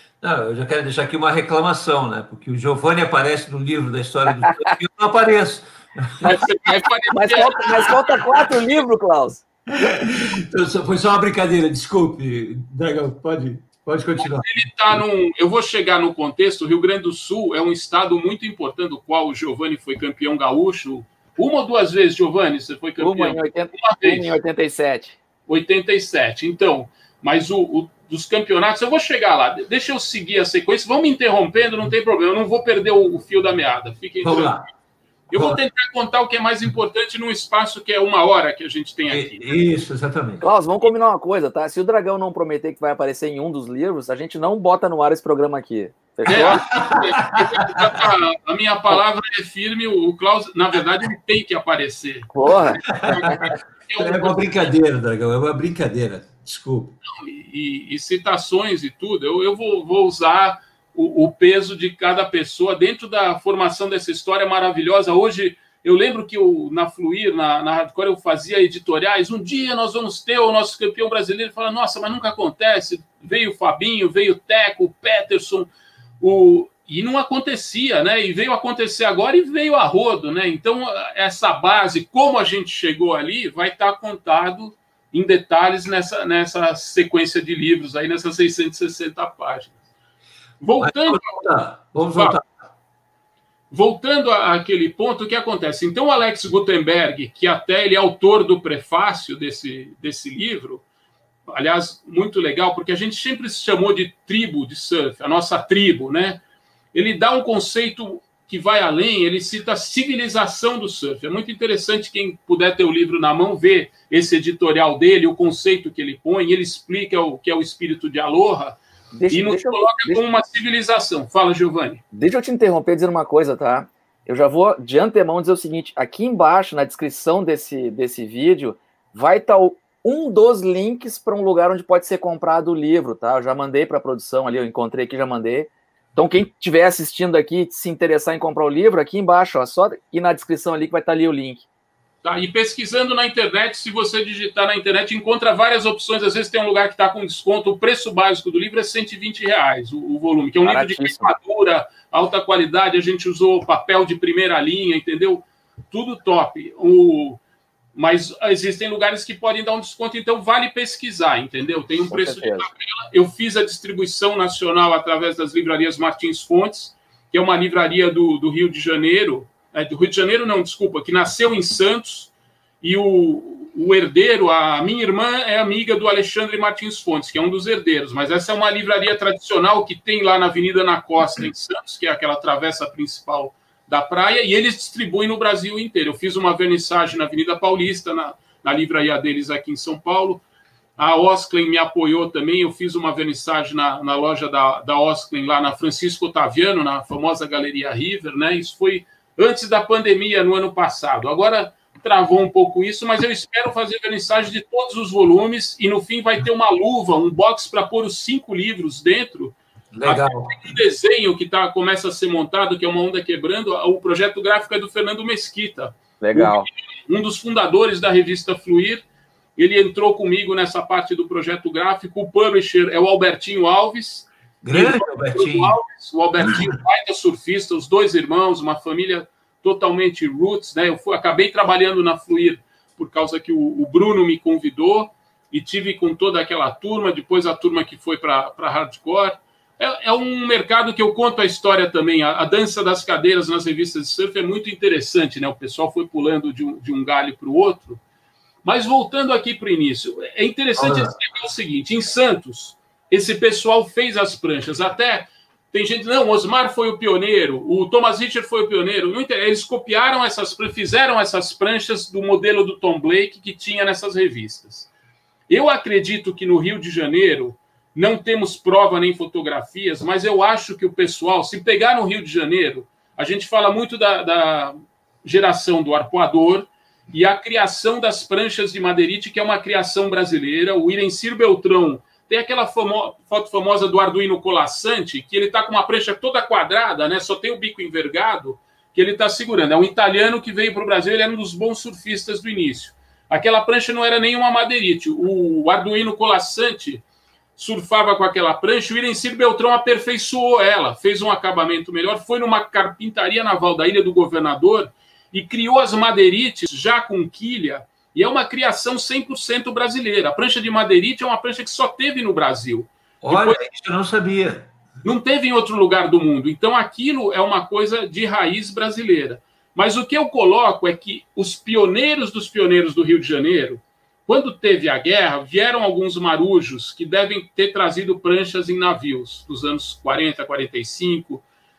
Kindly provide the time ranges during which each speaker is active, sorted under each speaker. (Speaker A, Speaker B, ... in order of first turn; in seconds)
Speaker A: 0.2-6.5, 7.5-8.5, 9.7-15.0, 34.2-34.7, 35.3-35.6, 39.1-40.5, 46.4-47.9, 52.9-57.0, 90.8-92.5, 209.9-210.7, 224.6-225.8, 250.8-251.1, 313.2-314.7
Speaker B: 6.2-9.4, 23.0-25.2, 40.4-46.6, 52.3-53.4, 119.1-120.2, 122.1-141.7, 150.6-151.3, 162.1-162.7, 216.2-216.7
Speaker C: 6.2-7.9, 14.2-24.3, 25.5-34.6, 35.3-39.5, 46.3-54.7, 57.1-75.7, 76.2-89.8, 90.6-91.5, 92.1-92.4, 93.7-100.8, 101.5-106.4, 106.9-118.8, 119.3-122.0, 142.2-157.4, 157.9-190.4, 191.0-219.0, 219.6-248.0, 248.6-264.9, 265.5-297.0, 297.6-313.6, 315.0-331.4